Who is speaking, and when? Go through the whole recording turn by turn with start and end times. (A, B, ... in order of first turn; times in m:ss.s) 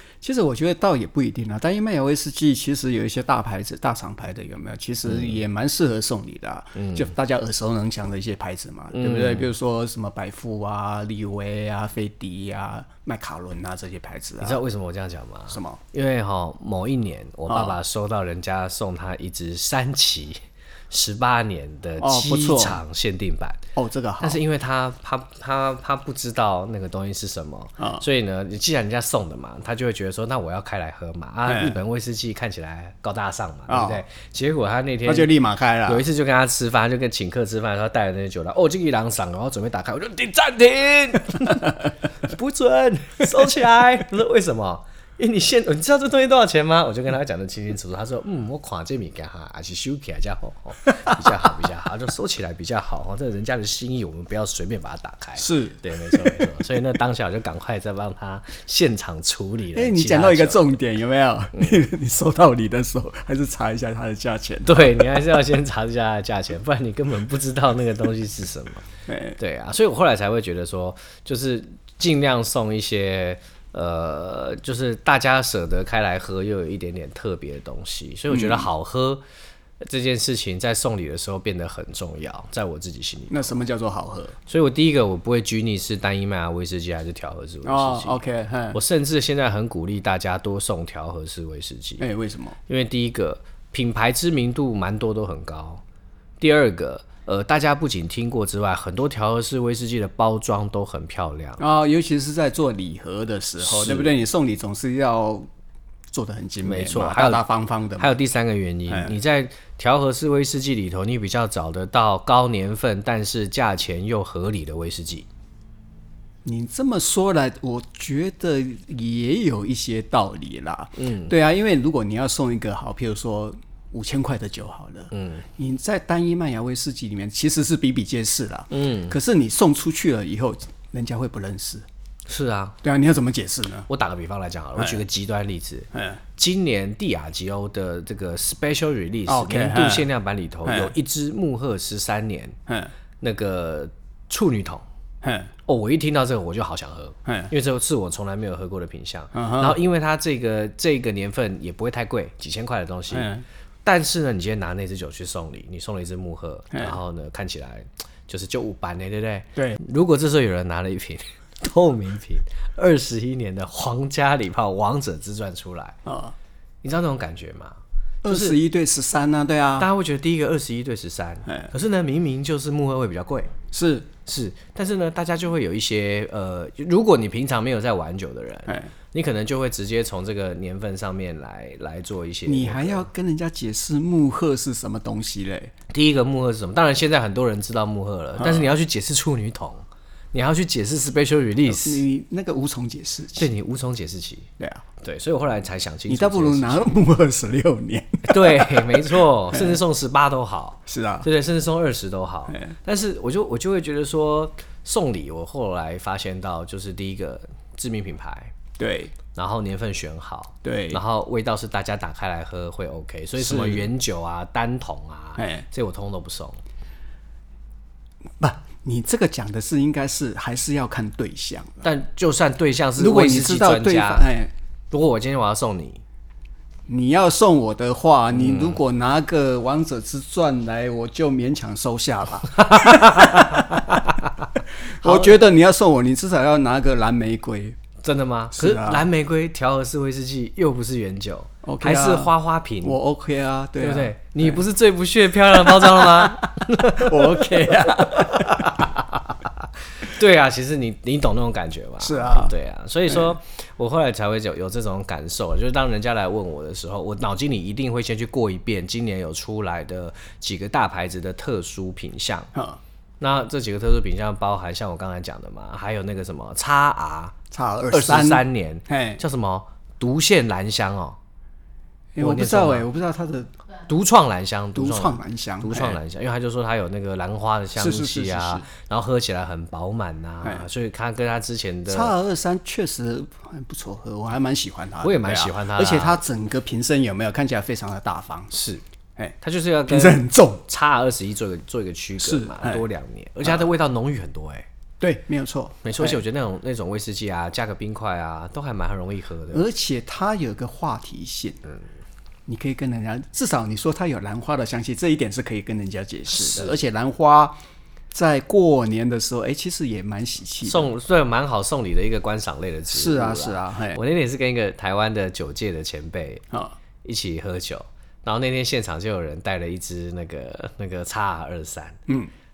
0:00.2-0:14.6 A
0:05.1-0:05.4 B
0:06.8-0:07.1 B
0:08.9-0:09.5 B
0:14.4-0:20.4 B
0:15.5-0:15.8 A
0:17.5-0:17.8 A
0:20.9-0:23.6 B
0:22.0-0:22.8 A
0:23.8-0:24.4 A
0:24.2-0:35.3 B
0:27.8-0:28.0 A
0:31.5-0:31.8 A
0:33.7-0:34.0 A
0:35.0-0:36.0 A
0:35.9-1:00.7 B
0:55.4-0:56.5 A
0:59.8-1:05.0 A
1:04.7-1:08.9 B
1:09.1-1:09.4 A
1:09.4-1:19.2 B
1:18.3-1:18.7 A
1:19.8-1:23.5 B
1:23.3-1:24.4 A
1:24.5-1:28.2 B
1:27.6-1:28.8 A
1:28.7-1:32.0 B
1:32.0-1:32.6 A
1:32.7-1:35.8 B
1:36.4-1:41.6 B
1:41.6-1:45.5 A
1:43.6-1:44.1 B
1:46.1-1:48.1 A
1:46.6-1:47.4 B
1:48.0-1:55.3 B
1:48.9-1:49.1 A
1:56.4-2:11.9 A
2:01.0-2:01.3 B
2:05.1-2:05.4 B
2:08.7-2:09.2 B
2:12.3-2:12.8 B
2:12.8-2:13.9 A
2:13.9-2:22.6 B
2:14.8-2:15.0 A
2:15.9-2:16.2 A
2:19.3-2:20.1 A
2:20.7-2:20.9 A
2:23.2-2:24.8 B
2:25.2-2:25.5 A
2:25.6-2:33.3 B
2:27.2-2:27.5 A
2:29.4-2:29.8 A
2:33.1-2:33.4 A
2:33.8-2:46.0 B
2:46.1-2:46.4 A
2:46.8-2:48.6 B
2:48.2-2:49.9 A
2:49.8-2:53.5 B
2:53.7-2:54.1 A
2:54.2-3:03.1 B
2:58.7-2:58.9 A
3:02.5-3:05.7 A
3:05.9-3:12.0 B
3:08.4-3:08.7 A
3:11.6-3:13.5 A
3:13.4-3:14.5 B
3:14.6-3:14.8 A
3:15.0-3:16.9 B
3:16.1-3:19.8 A
3:18.2-3:28.5 B
3:20.9-3:21.3 A
3:28.8-3:29.1 A
3:29.3-3:36.6 B
3:30.6-3:31.0 A
3:33.4-3:33.8 A
3:35.4-3:35.6 A
3:38.4-3:41.9 A
3:41.8-3:44.3 B
3:43.0-3:44.5 A
3:44.9-3:46.0 B
3:46.9-3:54.1 A
3:48.3-3:48.8 B
3:52.6-3:54.4 B
3:55.0-3:57.8 A
3:55.0-3:55.4 B
3:58.0-4:03.0 B
3:58.5-3:59.0 A
4:01.6-4:04.6 A
4:03.8-4:09.3 B
4:05.6-4:08.9 A
4:10.0-4:22.5 B
4:12.0-4:12.5 A
4:13.1-4:13.3 A
4:22.5-4:22.8 A
4:23.2-4:27.4 B
4:27.5-4:29.2 A
4:27.9-4:31.2 B
4:32.1-4:33.5 A
4:32.2-4:32.9 B
4:33.9-4:42.1 B
4:34.8-4:36.0 A
4:37.8-4:38.7 A
4:41.9-4:48.5 A
4:45.0-4:46.2 B
4:48.5-4:48.8 B
4:49.4-4:54.7 B
4:49.9-4:50.6 A
4:52.2-4:52.8 A
4:55.0-4:56.2 A
4:55.8-4:59.6 B
4:59.5-5:01.6 A
5:02.5-5:07.6 A
5:06.3-5:06.8 B
5:08.1-5:10.9 A
5:10.6-5:16.4 B
5:12.9-5:14.0 A
5:17.0-5:22.0 B